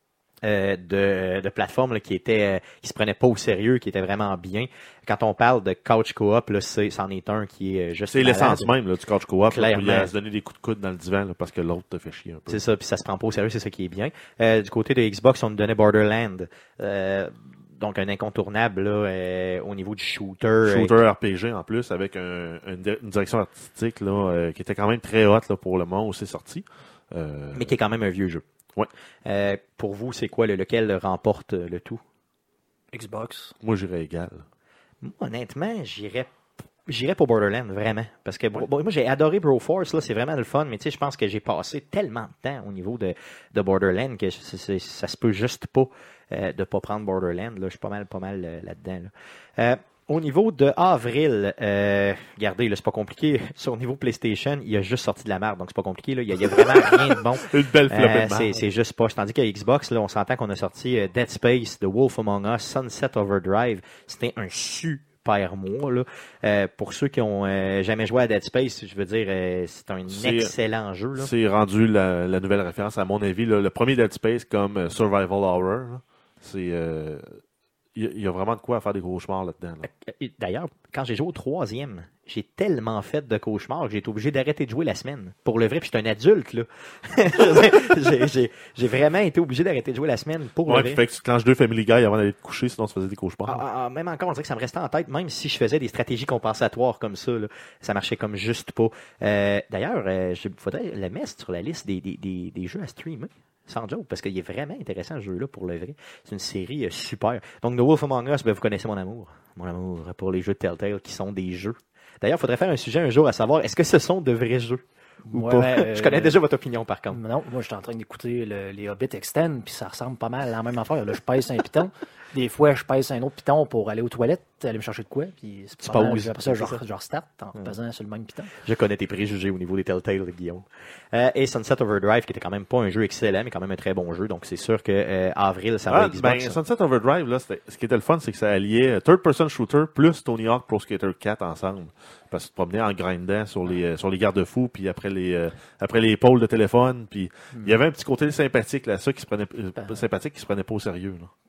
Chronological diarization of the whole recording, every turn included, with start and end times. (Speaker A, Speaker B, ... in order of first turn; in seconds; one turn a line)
Speaker A: 0.4-8.7
Speaker B: 8.1-12.6
Speaker A: 9.5-10.1
Speaker A: 12.5-20.9
Speaker B: 20.6-27.7
Speaker A: 27.5-28.4
Speaker A: 29.2-32.0
Speaker C: 32.9-33.5
Speaker B: 33.6-34.4
Speaker A: 35.0-36.3
Speaker A: 36.9-71.3
Speaker B: 56.4-58.6
Speaker B: 70.1-70.5
Speaker B: 71.2-77.4
Speaker B: 77.9-79.9
Speaker A: 79.8-91.0
Speaker B: 90.7-93.6
Speaker A: 93.5-117.2
Speaker C: 115.3-116.4
Speaker C: 117.1-128.5
Speaker A: 125.8-126.8
Speaker A: 128.6-136.6
Speaker B: 135.9-151.3
Speaker C: 147.5-147.8
Speaker C: 149.8-150.1